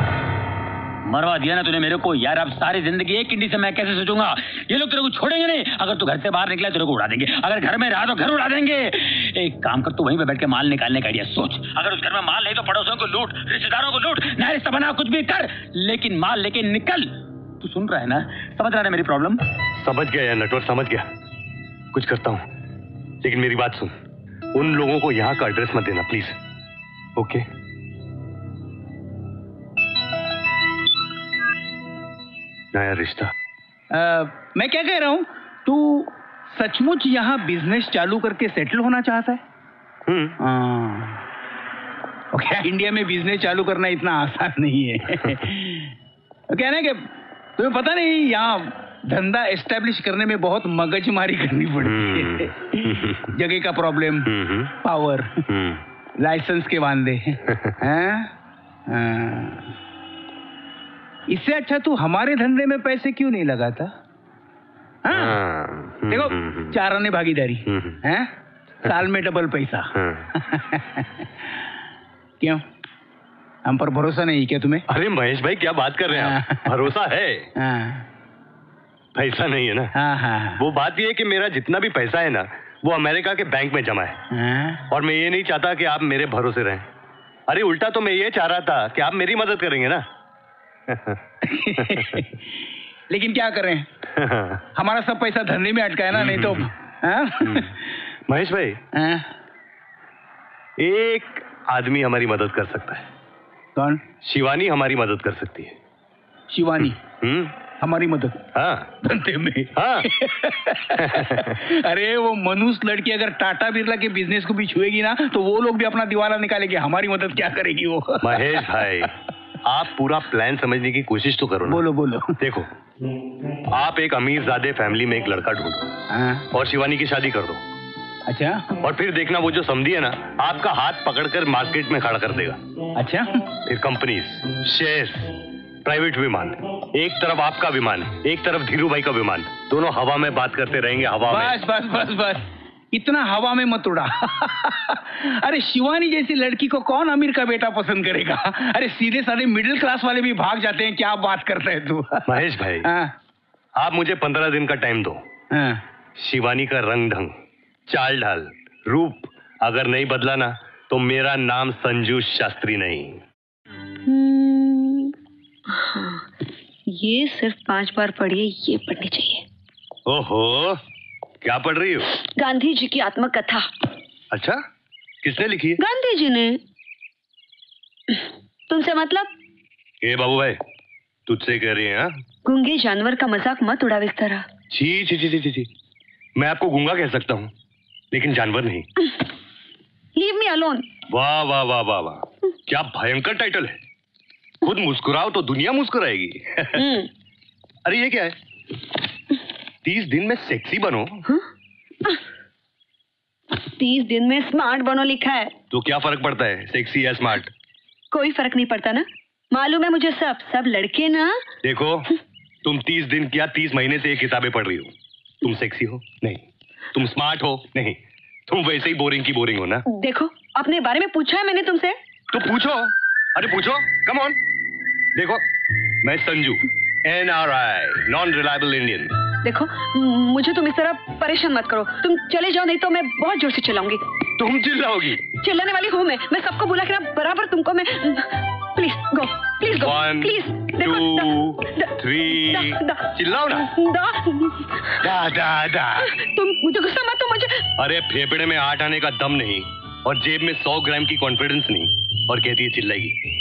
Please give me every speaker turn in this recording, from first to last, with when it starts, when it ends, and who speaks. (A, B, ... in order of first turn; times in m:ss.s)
0:01.1-0:17.1 A
0:17.6-0:19.4 A
0:19.8-0:21.1 B
0:21.9-0:22.5 B
0:23.2-0:24.0 B
0:24.5-0:26.4 B
0:27.2-0:27.5 B
0:32.7-0:33.3 B
0:33.9-0:39.4 C
0:40.1-0:40.4 B
0:40.4-0:41.2 C
0:42.3-0:45.9 C
0:46.5-0:47.1 C
0:47.6-0:52.5 C
0:51.8-0:53.4 B
0:53.3-0:54.3 C
0:54.3-0:54.7 B
0:54.8-0:55.4 C
0:55.5-0:55.8 B
0:56.2-0:58.3 C
0:58.9-0:59.7 C
1:01.3-1:03.9 C
1:05.0-1:05.4 C
1:05.1-1:06.8 B
1:06.1-1:08.3 C
1:07.7-1:08.0 B
1:08.9-1:11.1 C
1:09.9-1:10.3 B
1:13.7-1:14.8 C
1:14.9-1:17.5 B
1:16.1-1:16.7 C
1:17.6-1:18.0 C
1:19.2-1:19.9 B
1:20.0-1:20.6 C
1:20.6-1:24.2 B
1:24.3-1:24.8 C
1:24.9-1:26.9 B
1:27.5-1:30.0 B
1:30.9-1:31.2 B
1:31.4-1:32.3 C
1:31.8-1:32.1 B
1:33.1-1:33.9 C
1:34.1-1:34.6 B
1:34.8-1:37.7 C
1:36.1-1:36.7 B
1:37.4-1:37.7 B
1:38.3-1:38.8 B
1:39.0-1:39.3 C
1:40.8-1:43.1 B
1:43.8-1:44.0 C
1:44.2-1:45.8 B
1:46.5-1:47.0 C
1:47.2-1:47.6 B
1:47.8-1:48.4 C
1:48.5-1:48.9 B
1:49.0-1:58.5 C
1:49.7-1:50.1 B
1:51.0-1:51.6 B
1:58.2-2:01.8 B
2:01.7-2:02.4 C
2:02.4-2:02.7 B
2:03.7-2:05.9 B
2:06.1-2:06.4 C
2:06.5-2:07.6 B
2:08.3-2:08.6 C
2:08.8-2:12.6 B
2:13.0-2:13.4 C
2:13.6-2:15.3 B
2:15.8-2:21.6 B
2:21.3-2:32.3 C
2:32.3-2:32.9 B
2:32.8-2:33.1 C
2:33.8-2:35.2 B
2:35.5-2:35.8 C
2:36.2-2:37.4 B
2:37.9-2:43.2 B
2:44.1-2:45.1 D
2:45.7-2:46.3 D
2:46.9-2:49.4 D
2:50.1-2:50.8 B
2:51.4-2:52.1 B
2:52.3-2:53.7 D
2:54.3-2:54.6 B
2:55.2-2:55.8 B
2:55.8-2:56.6 D
2:58.1-2:59.3 D
3:00.0-3:00.6 B
3:01.3-3:02.2 B
3:02.4-3:04.5 D
3:04.7-3:05.7 B
3:06.4-3:07.5 B
3:08.1-3:08.9 B
3:10.2-3:10.9 D
3:11.1-3:13.8 B
3:14.6-3:16.9 B
3:16.8-3:17.1 D
3:17.8-3:18.4 B
3:19.8-3:21.2 B
3:23.8-3:25.5 D
3:25.7-3:27.5 B
3:28.1-3:31.4 D
3:31.6-3:32.1 B
3:32.6-3:39.9 B
3:39.9-3:42.0 D
3:42.3-3:44.4 B
3:45.2-3:45.4 B
3:46.0-3:49.1 B
3:49.4-3:54.0 D
3:54.4-3:55.2 B
3:55.4-4:03.0 D
3:59.7-4:03.7 B
4:03.6-4:05.0 D
4:05.0-4:06.1 B
4:06.1-4:07.6 D
4:07.8-4:13.2 B